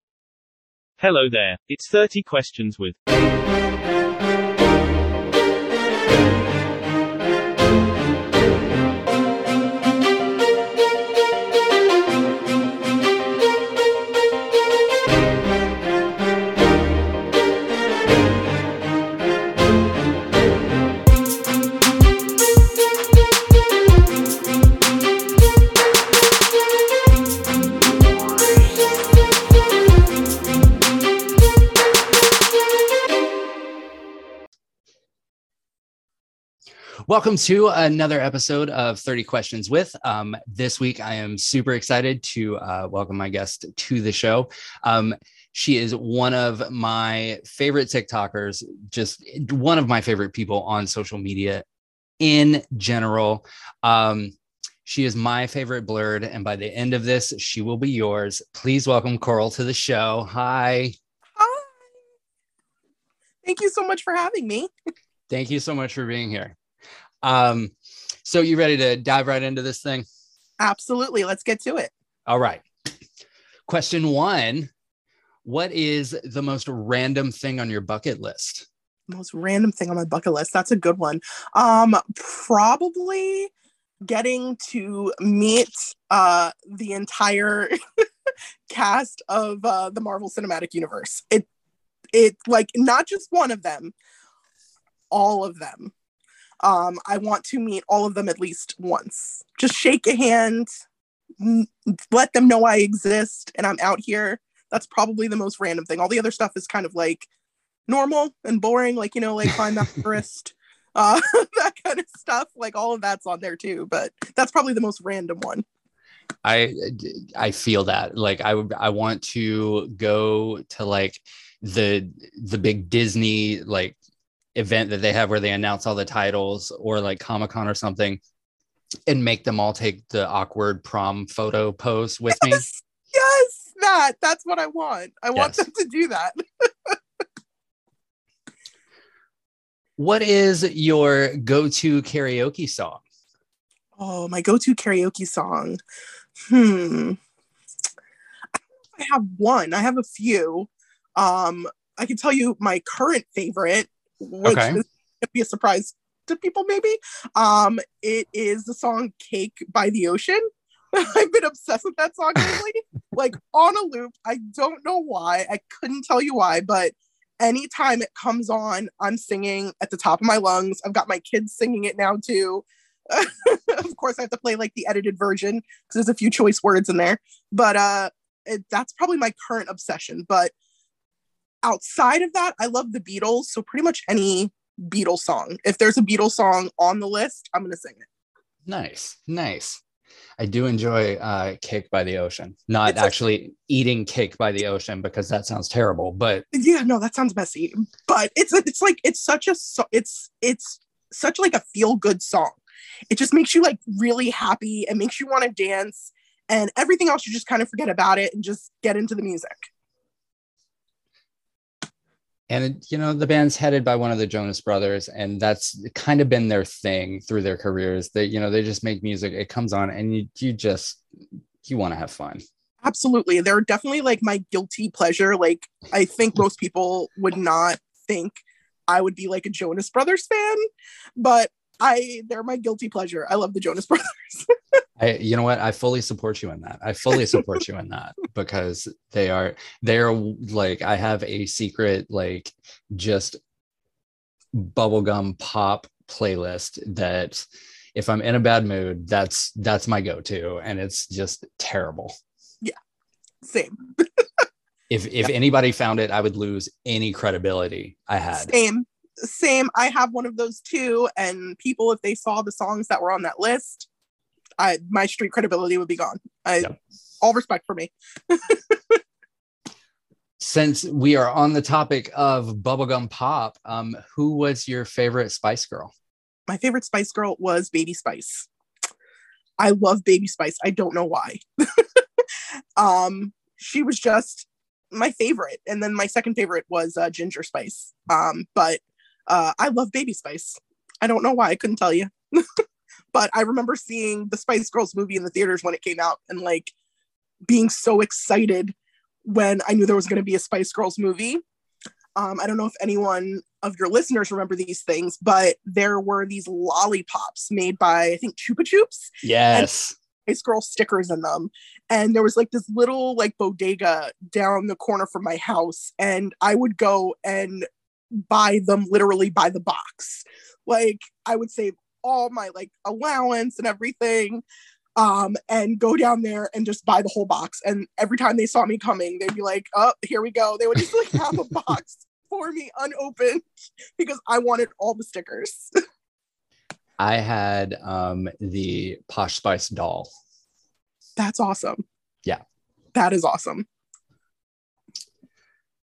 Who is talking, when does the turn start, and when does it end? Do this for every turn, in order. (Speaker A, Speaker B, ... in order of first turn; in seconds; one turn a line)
Speaker A: 1.0-3.0
Speaker B: 37.1-51.6
Speaker B: 52.2-61.0
Speaker C: 61.4-61.8
Speaker C: 63.4-64.7
Speaker B: 65.3-66.6
Speaker B: 67.2-70.1
Speaker C: 70.6-71.9
Speaker B: 72.3-72.7
Speaker B: 73.7-74.7
Speaker B: 75.5-78.7
Speaker C: 79.1-83.5
Speaker C: 84.0-87.8
Speaker C: 88.7-91.5
Speaker C: 92.1-93.9
Speaker C: 95.1-95.9
Speaker C: 96.6-100.7
Speaker C: 101.4-107.3
Speaker C: 107.9-115.6
Speaker B: 116.4-124.0
Speaker B: 124.5-128.2
Speaker B: 129.1-132.7
Speaker C: 132.3-137.0
Speaker B: 135.3-135.7
Speaker B: 140.0-143.0
Speaker C: 144.0-145.8
Speaker C: 146.5-147.2
Speaker C: 148.9-180.5
Speaker B: 154.4-154.8
Speaker C: 181.6-188.1
Speaker B: 188.7-189.8
Speaker B: 190.4-196.4
Speaker C: 192.9-193.1
Speaker C: 196.5-202.6
Speaker C: 203.1-209.7
Speaker B: 212.5-221.0
Speaker B: 221.6-222.4
Speaker C: 222.8-230.7
Speaker C: 231.2-234.8
Speaker B: 235.0-243.4
Speaker B: 244.5-252.2
Speaker C: 253.4-254.4
Speaker B: 254.9-258.6
Speaker C: 258.4-263.9
Speaker C: 264.6-269.0
Speaker B: 270.4-275.9
Speaker C: 276.5-278.5
Speaker C: 279.6-282.0
Speaker C: 282.8-292.5
Speaker C: 293.1-296.7
Speaker C: 297.5-298.7
Speaker C: 299.2-301.4
Speaker C: 302.2-309.7
Speaker B: 309.2-309.9
Speaker C: 310.3-324.4
Speaker C: 325.0-333.4
Speaker C: 334.0-335.7
Speaker B: 337.0-340.1
Speaker C: 341.2-341.8
Speaker C: 342.9-343.7